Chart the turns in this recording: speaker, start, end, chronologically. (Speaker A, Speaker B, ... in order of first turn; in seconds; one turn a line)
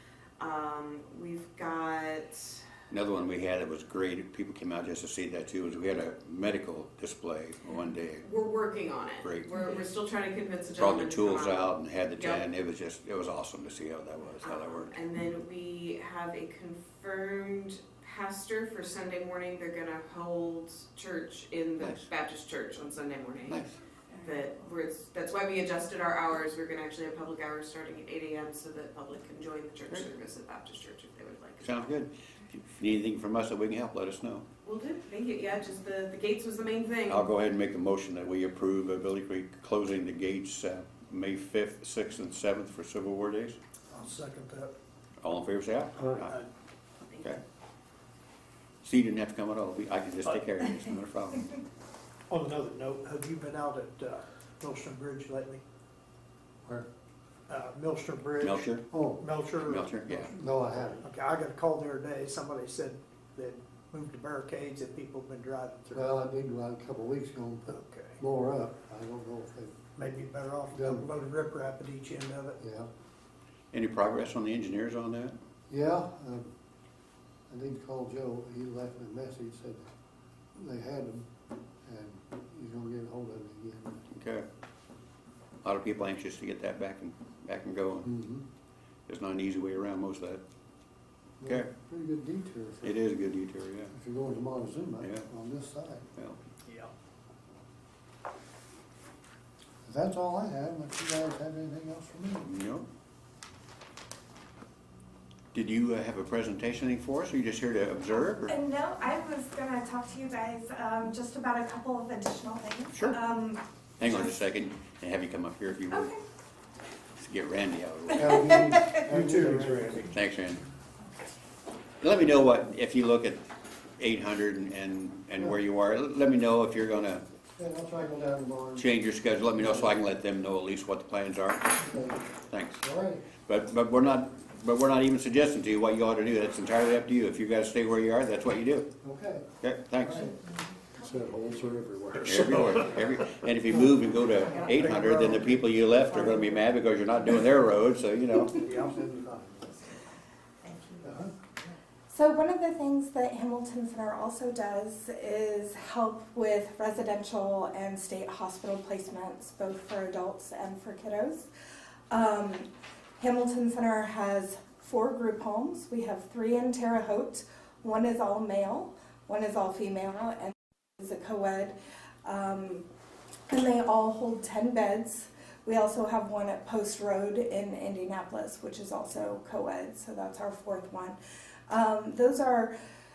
Speaker A: 0.4-2.7
Speaker B: 2.9-8.3
Speaker A: 8.2-12.4
Speaker B: 9.2-9.5
Speaker B: 10.8-15.1
Speaker A: 14.4-31.9
Speaker B: 21.8-22.1
Speaker B: 23.5-23.7
Speaker B: 31.6-34.5
Speaker A: 34.6-37.3
Speaker B: 37.1-43.6
Speaker C: 43.9-44.7
Speaker B: 45.2-46.4
Speaker C: 46.0-46.5
Speaker A: 47.1-47.3
Speaker B: 48.8-51.5
Speaker C: 52.3-55.6
Speaker C: 57.5-66.1
Speaker B: 58.4-58.8
Speaker D: 58.9-59.2
Speaker B: 59.6-60.3
Speaker D: 60.3-61.0
Speaker D: 65.9-69.8
Speaker C: 67.7-68.2
Speaker C: 70.0-72.6
Speaker D: 70.7-71.1
Speaker D: 72.6-72.9
Speaker B: 73.7-75.3
Speaker D: 75.7-76.5
Speaker D: 77.5-79.9
Speaker D: 80.5-81.3
Speaker D: 81.8-84.0
Speaker B: 84.1-84.5
Speaker B: 85.6-88.1
Speaker D: 88.0-88.5
Speaker B: 89.1-90.4
Speaker D: 91.4-93.0
Speaker B: 92.8-93.9
Speaker D: 93.9-96.1
Speaker C: 96.7-96.9
Speaker D: 99.8-102.5
Speaker B: 102.4-102.9
Speaker B: 105.5-108.6
Speaker E: 108.5-114.3
Speaker B: 112.9-113.2
Speaker B: 114.0-116.1
Speaker B: 117.2-118.5
Speaker D: 118.2-120.0
Speaker E: 118.4-119.1
Speaker C: 119.1-120.1
Speaker B: 120.1-120.6
Speaker B: 122.0-123.4
Speaker B: 124.0-127.2
Speaker D: 127.6-128.9
Speaker B: 128.8-131.8
Speaker D: 129.6-129.9
Speaker D: 131.8-133.3
Speaker B: 132.5-132.8
Speaker B: 133.4-138.9
Speaker D: 139.0-139.5
Speaker B: 139.6-140.3
Speaker D: 140.0-142.8
Speaker B: 142.2-148.7
Speaker C: 144.9-145.5
Speaker D: 148.5-149.9
Speaker D: 151.0-151.6
Speaker E: 152.1-161.5
Speaker E: 162.1-172.8
Speaker E: 173.5-181.2
Speaker E: 181.7-182.7